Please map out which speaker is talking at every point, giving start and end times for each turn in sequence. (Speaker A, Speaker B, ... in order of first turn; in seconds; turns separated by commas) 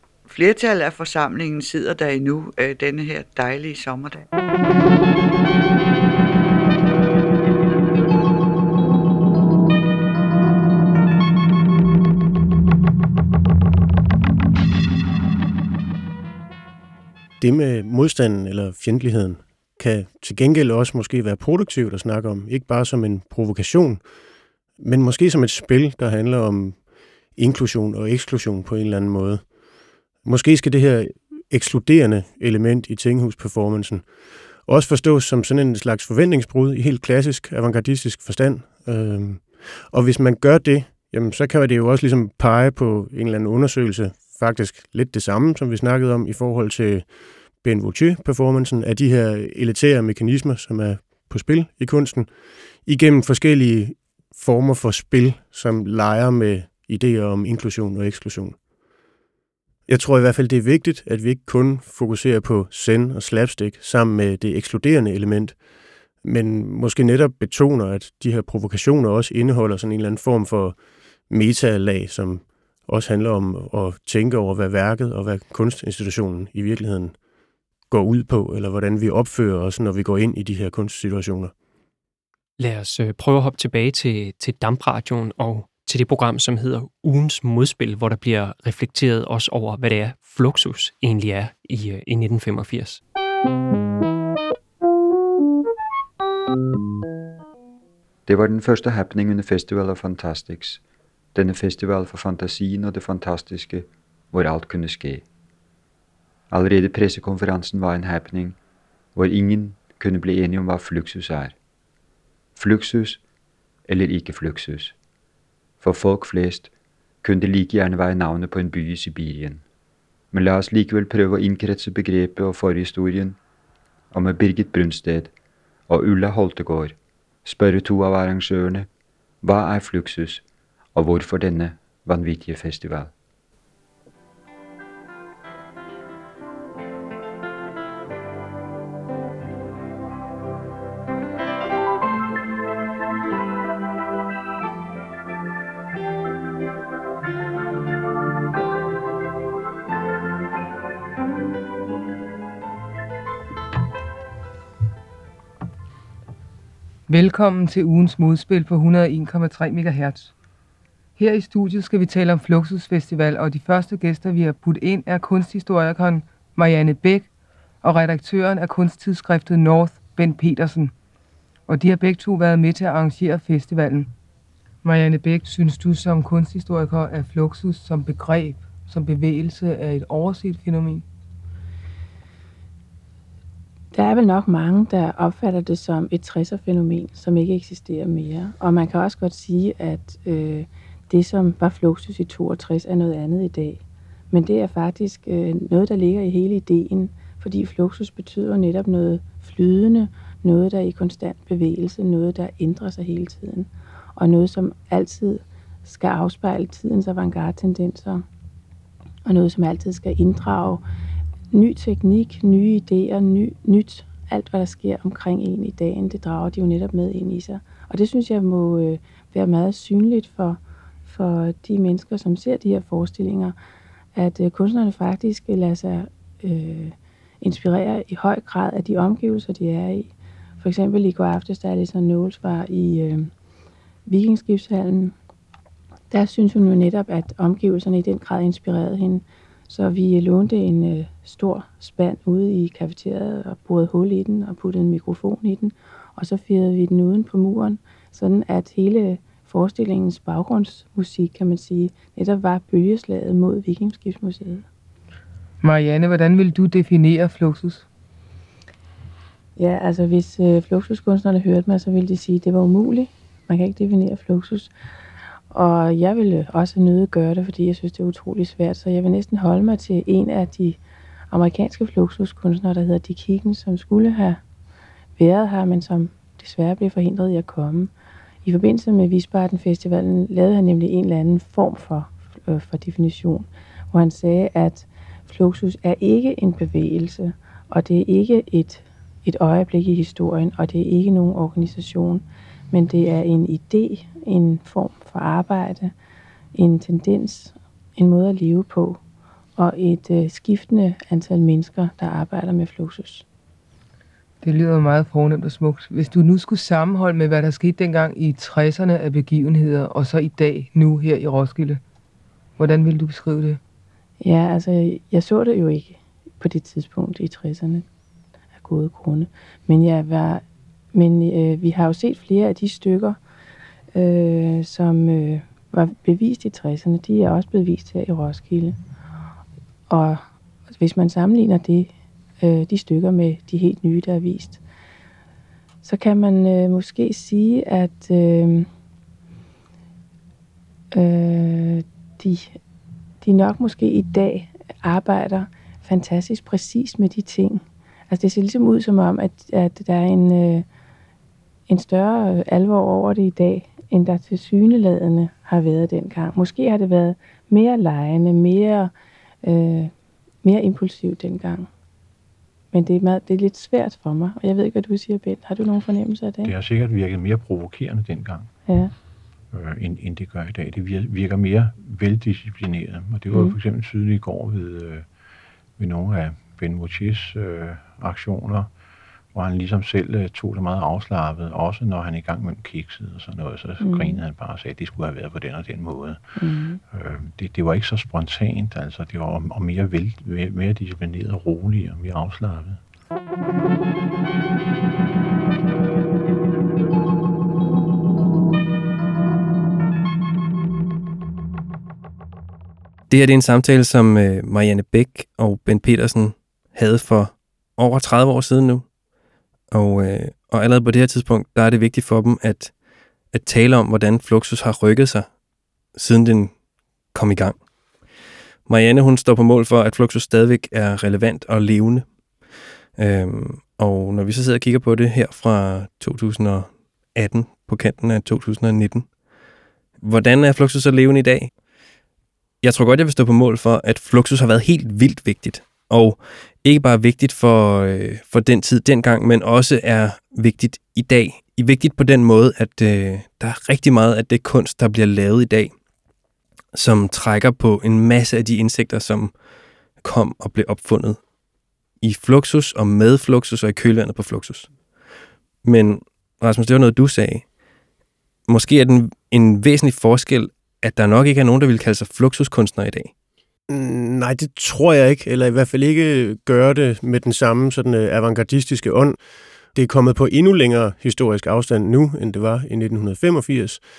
Speaker A: 0.3-4.3, Speaker B: 17.4-24.1, Speaker B: 24.8-29.5, Speaker B: 30.2-58.6, Speaker B: 59.9-65.6, Speaker B: 66.2-77.2, Speaker B: 77.9-81.5, Speaker C: 82.6-93.0, Speaker D: 98.3-100.8, Speaker D: 101.3-105.2, Speaker D: 106.5-108.6, Speaker D: 109.2-111.5, Speaker D: 112.6-113.2, Speaker D: 113.9-115.0, Speaker D: 115.8-116.7, Speaker D: 117.2-119.6, Speaker D: 120.3-123.4, Speaker D: 124.1-125.3, Speaker D: 125.9-128.9, Speaker D: 129.4-133.1, Speaker E: 157.1-160.3, Speaker E: 161.2-167.3, Speaker E: 167.8-170.9, Speaker E: 171.7-174.1, Speaker E: 174.8-181.1, Speaker F: 183.9-208.2, Speaker F: 209.3-210.8, Speaker F: 211.5-223.6, Speaker F: 224.2-233.3, Speaker F: 234.1-235.2, Speaker F: 236.1-254.7, Speaker E: 255.6-257.9, Speaker F: 259.6-264.7, Speaker F: 265.5-270.8, Speaker F: 271.3-274.4, Speaker F: 275.2-277.9, Speaker F: 278.4-295.9, Speaker F: 296.6-299.0, Speaker F: 299.6-303.2, Speaker E: 304.4-311.8, Speaker E: 312.6-313.6, Speaker F: 314.2-317.9, Speaker F: 318.6-320.4, Speaker F: 320.9-323.2, Speaker F: 323.9-328.8, Speaker F: 329.9-334.6, Speaker F: 335.8-338.7, Speaker F: 340.9-342.6, Speaker F: 343.2-350.6, Speaker F: 351.7-358.9, Speaker F: 359.4-359.9, Speaker F: 360.4-361.7, Speaker F: 362.7-366.5, Speaker G: 366.4-368.5, Speaker F: 368.7-368.9, Speaker G: 369.5-375.1, Speaker F: 373.3-373.6, Speaker G: 375.8-378.7, Speaker G: 379.3-386.3, Speaker F: 383.8-384.2, Speaker F: 386.4-386.8, Speaker G: 386.9-392.8, Speaker H: 403.1-408.9, Speaker H: 409.7-412.7, Speaker H: 413.3-415.3, Speaker H: 415.9-416.5, Speaker H: 417.1-417.6, Speaker H: 418.7-422.1, Speaker H: 423.0-429.1, Speaker H: 430.0-431.5, Speaker H: 432.6-445.7, Speaker H: 446.7-449.3, Speaker H: 450.0-451.2, Speaker H: 452.0-454.7, Speaker H: 455.6-457.5, Speaker H: 458.5-463.1, Speaker B: 463.7-469.2, Speaker B: 469.7-473.8